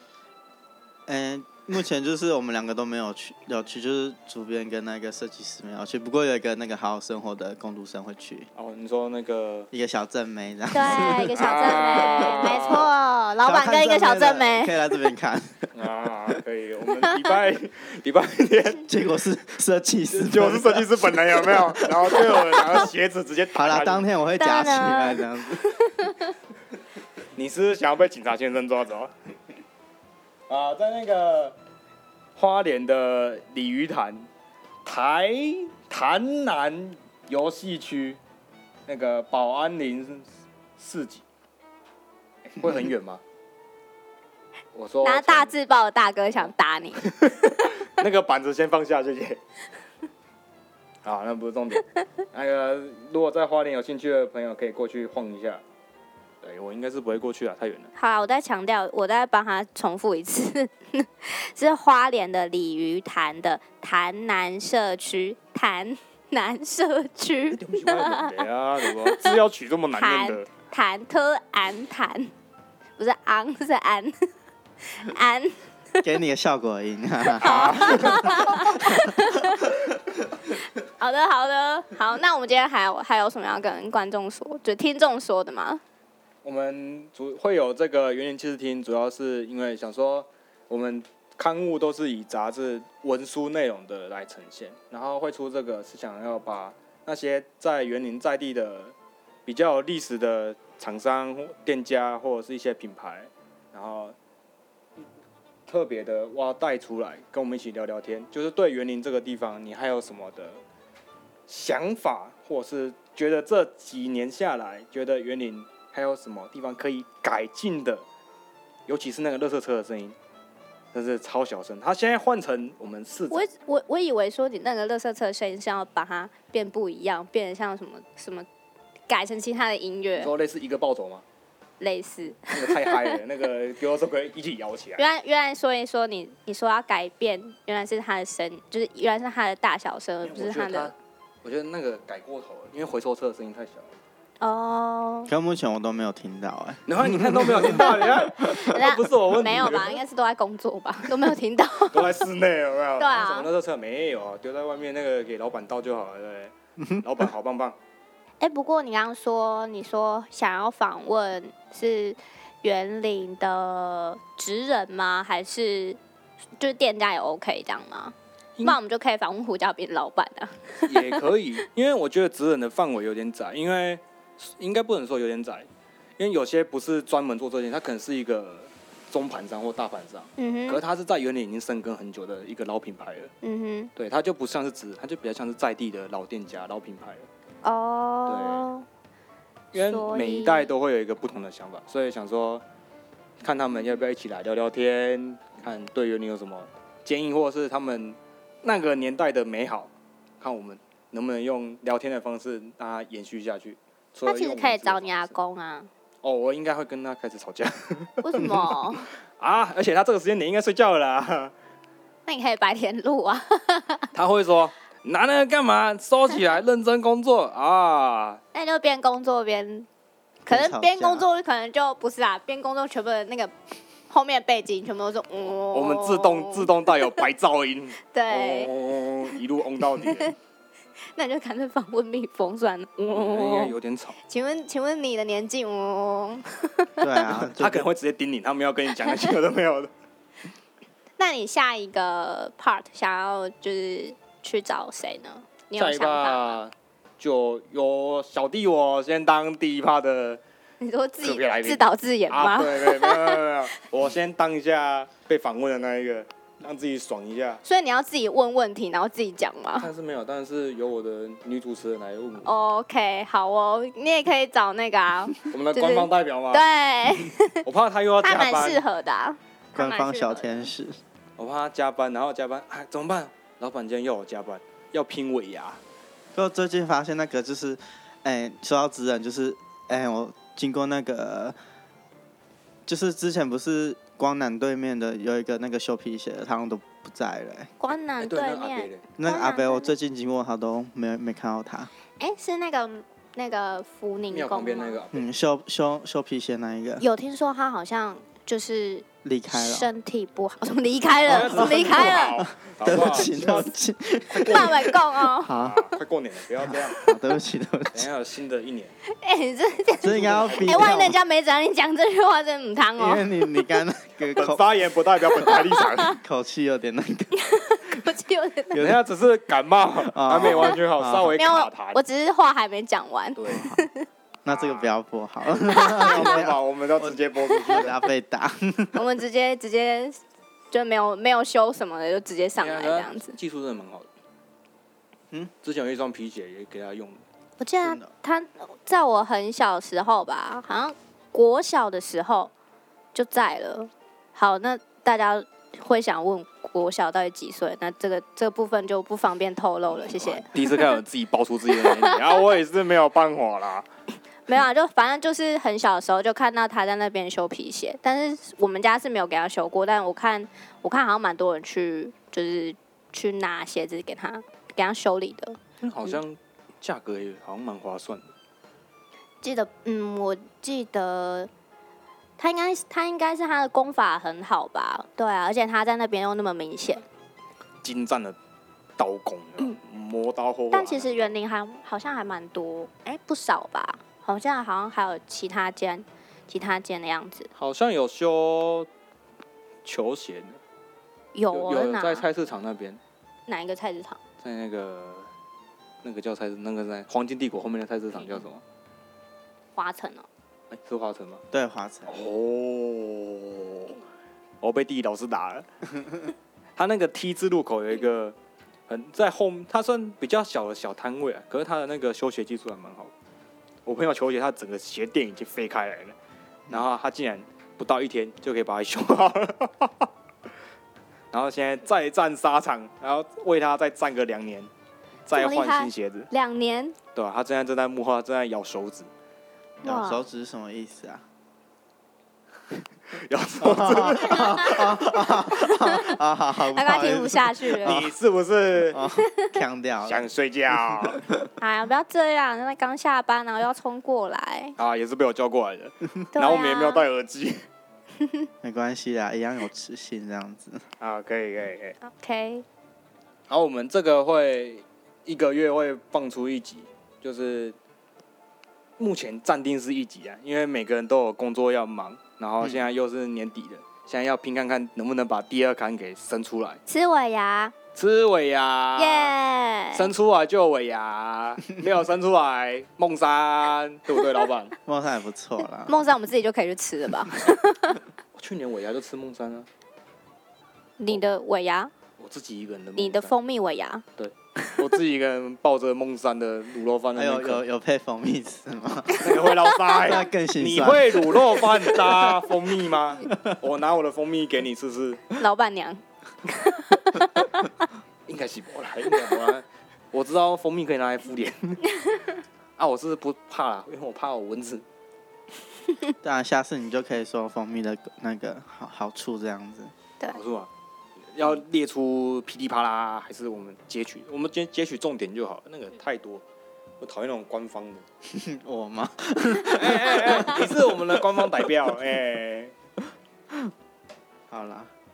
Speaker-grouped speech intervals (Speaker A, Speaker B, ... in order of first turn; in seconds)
Speaker A: 1.1-8.5, 9.7-15.7, 18.8-22.9, 23.5-25.7, 76.0-78.1, 145.3-147.9, 220.5-221.2, 237.0-237.9, 269.7-271.0, 276.3-281.5, 282.9-287.7, 289.2-291.9, 295.1-297.0, 299.2-299.9, 301.3-305.9, 306.6-308.1, 310.0-311.2, 313.0-314.6, 315.4-317.4, 318.7-319.0, 320.0-321.4, 323.5-323.8, 324.4-329.0, 337.8-338.1, 401.5-402.2, 429.8-431.2, 433.6-438.1, 438.9-440.2, 440.9-441.5, 448.6-450.8, 474.9-476.0, 487.1-492.4, 493.2-493.5, 506.2-509.9, 518.3-521.7, 524.5-524.9
Speaker B: 8.5-9.7, 11.3-12.9, 15.7-18.9, 20.1-24.1, 27.3-29.1, 30.5-31.5, 32.4-34.3, 34.8-38.2, 38.9-41.2, 42.5-43.2, 44.7-45.5, 47.2-49.4, 51.0-55.6, 56.4-57.9, 67.5-70.5, 77.4-78.5, 86.4-98.9, 99.5-104.2, 105.7-110.6, 111.5-118.0, 118.9-120.2, 120.9-123.5, 130.2-131.2, 132.5-135.0, 140.2-143.9, 146.9-150.0, 151.9-157.8, 170.8-183.3, 183.9-187.3, 188.3-188.7, 189.7-192.6, 193.4-205.3, 206.2-208.6, 209.4-211.5, 214.1-218.4, 225.5-230.3, 233.1-234.2, 237.2-239.9, 245.7-250.4, 251.2-257.6, 259.8-262.5, 265.5-266.6, 267.6-268.8, 271.4-275.8, 288.2-289.0, 294.3-295.3, 301.2-303.8, 304.3-304.9, 305.5-307.0, 307.9-308.9, 310.0-310.9, 314.4-316.2, 318.7-322.0, 323.4-323.7, 324.5-324.9, 326.0-327.9, 332.6-334.1, 335.6-337.2, 349.9-353.9, 365.8-368.3, 377.8-378.4, 379.0-381.3, 387.5-388.9, 389.8-390.6, 391.5-393.0, 394.4-395.3, 396.0-398.6, 400.7-401.4, 402.1-404.0, 404.6-405.7, 406.8-408.4, 408.9-413.1, 413.8-416.1, 416.7-420.1, 421.3-424.7, 425.3-426.3, 427.1-429.1, 433.1-434.9, 437.8-439.0, 440.0-441.2, 444.8-447.6, 451.0-452.0, 453.5-457.8, 459.0-466.8, 467.9-469.3, 469.9-474.7, 478.3-479.7, 482.2-483.3, 484.2-487.6, 489.2-495.2, 498.3-501.9, 502.8-504.8, 510.3-510.7, 511.3-516.4, 517.0-518.0, 519.7-522.7
Speaker C: 10.7-15.0, 17.0-17.3, 24.4-26.3, 45.0-47.1, 58.0-69.4, 69.9-72.3, 73.0-74.3, 74.8-75.6, 77.4-79.7, 80.8-85.8, 123.3-128.4, 129.1-130.3, 131.8-133.2, 135.0-140.9, 144.4-145.3, 147.7-152.2, 153.0-153.5, 158.4-166.0, 166.6-171.2, 180.4-180.8, 183.4-183.9, 187.6-188.8, 189.7-190.7, 204.2-205.9, 208.2-209.1, 212.2-214.1, 218.5-219.9, 220.5-223.5, 224.1-226.7, 228.1-228.7, 230.0-230.3, 231.1-233.7, 234.3-237.2, 241.2-246.6, 250.8-253.4, 257.6-259.9, 262.4-267.6, 268.2-270.7, 287.8-289.9, 292.2-295.0, 297.0-302.4, 304.5-305.5, 309.2-313.5, 315.5-315.9, 317.3-318.8, 320.4-320.8, 321.3-324.1, 325.7-326.3, 327.6-327.9, 328.9-330.2, 330.7-333.4, 337.6-342.5, 343.1-351.0, 351.7-352.4, 354.5-365.6, 369.4-371.5, 372.4-377.0, 380.7-387.5, 391.3-392.2, 393.5-394.2, 399.8-400.2, 425.3-427.0, 429.8-430.2, 434.2-438.0, 439.2-439.6, 441.6-444.8, 446.3-447.1, 448.2-448.5, 452.0-452.6, 466.9-467.7, 468.9-470.1, 475.8-478.0, 481.0-481.9, 482.9-484.0, 495.4-497.2